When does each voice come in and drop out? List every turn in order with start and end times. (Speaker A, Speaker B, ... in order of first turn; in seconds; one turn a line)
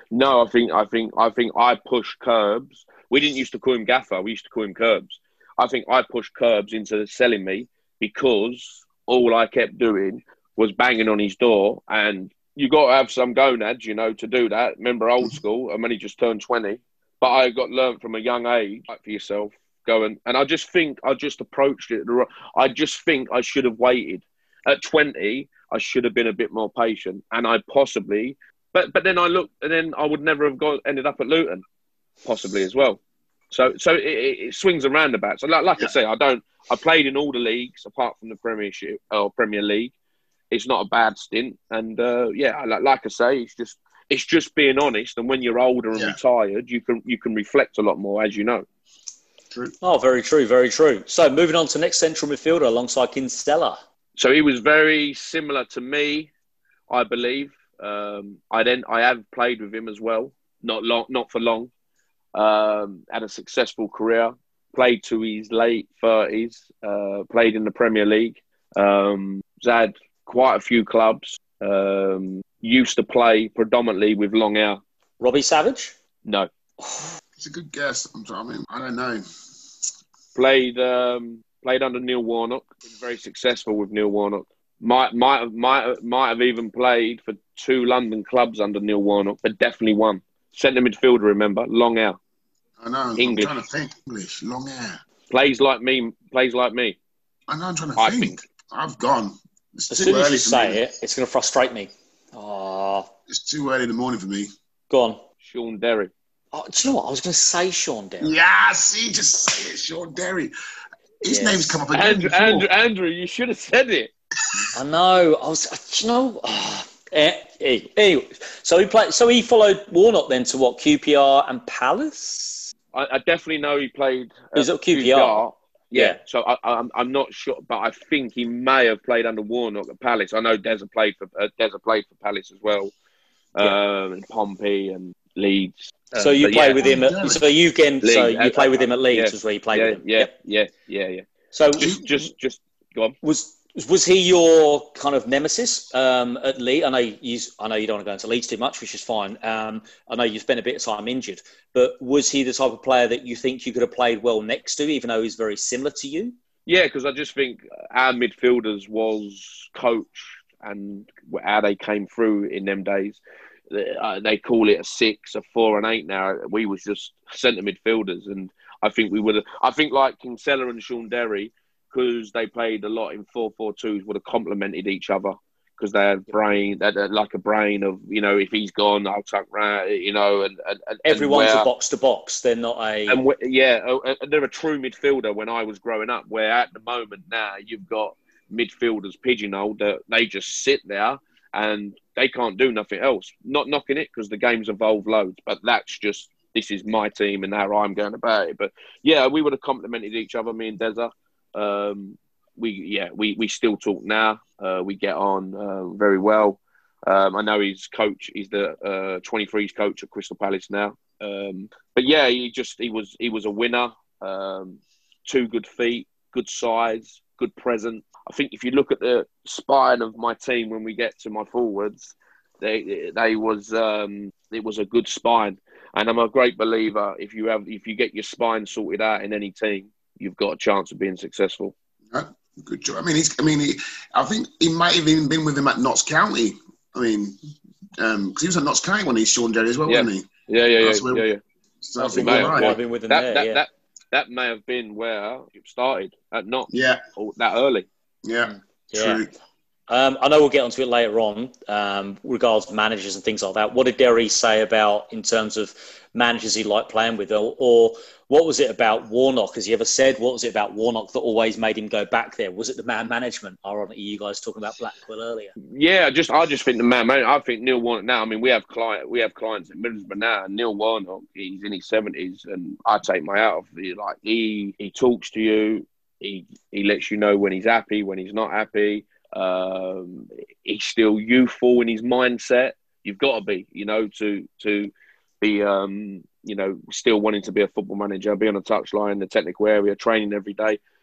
Speaker A: 0.1-31.6
Speaker A: 32.2-33.0
Speaker A: 33.5-39.9
Speaker A: 40.5-48.6
Speaker B: 49.8-53.8
Speaker A: 54.2-56.3
Speaker A: 56.9-61.7
Speaker A: 62.3-74.8
Speaker B: 75.2-75.9
Speaker B: 76.8-77.1
Speaker C: 77.4-79.2
Speaker A: 80.3-92.2
Speaker C: 92.8-95.0
Speaker A: 93.2-93.5
Speaker A: 95.3-97.0
Speaker C: 97.5-100.8
Speaker A: 98.0-98.4
Speaker B: 99.9-103.1
Speaker C: 103.3-104.5
Speaker B: 104.9-105.2
Speaker A: 105.4-106.1
Speaker B: 106.5-108.3
Speaker C: 108.2-110.5
Speaker C: 111.2-112.7
Speaker B: 111.2-111.8
Speaker A: 111.9-114.1
Speaker B: 114.7-122.7
Speaker A: 122.9-132.9
Speaker B: 124.5-125.4
Speaker A: 133.5-136.8
Speaker B: 136.2-140.3
Speaker C: 136.8-137.4
Speaker A: 138.0-143.2
Speaker B: 141.5-141.9
Speaker C: 141.8-142.0
Speaker B: 143.2-156.3
Speaker A: 156.7-181.7
Speaker B: 181.1-183.2
Speaker A: 183.1-231.7
Speaker C: 232.1-237.4
Speaker C: 238.0-240.3
Speaker A: 239.9-241.4
Speaker C: 240.8-241.2
Speaker C: 241.8-242.7
Speaker B: 242.0-243.6
Speaker A: 242.1-247.9
Speaker C: 246.7-247.0
Speaker C: 248.2-249.3
Speaker B: 248.4-249.2
Speaker B: 249.9-265.5
Speaker A: 265.7-290.8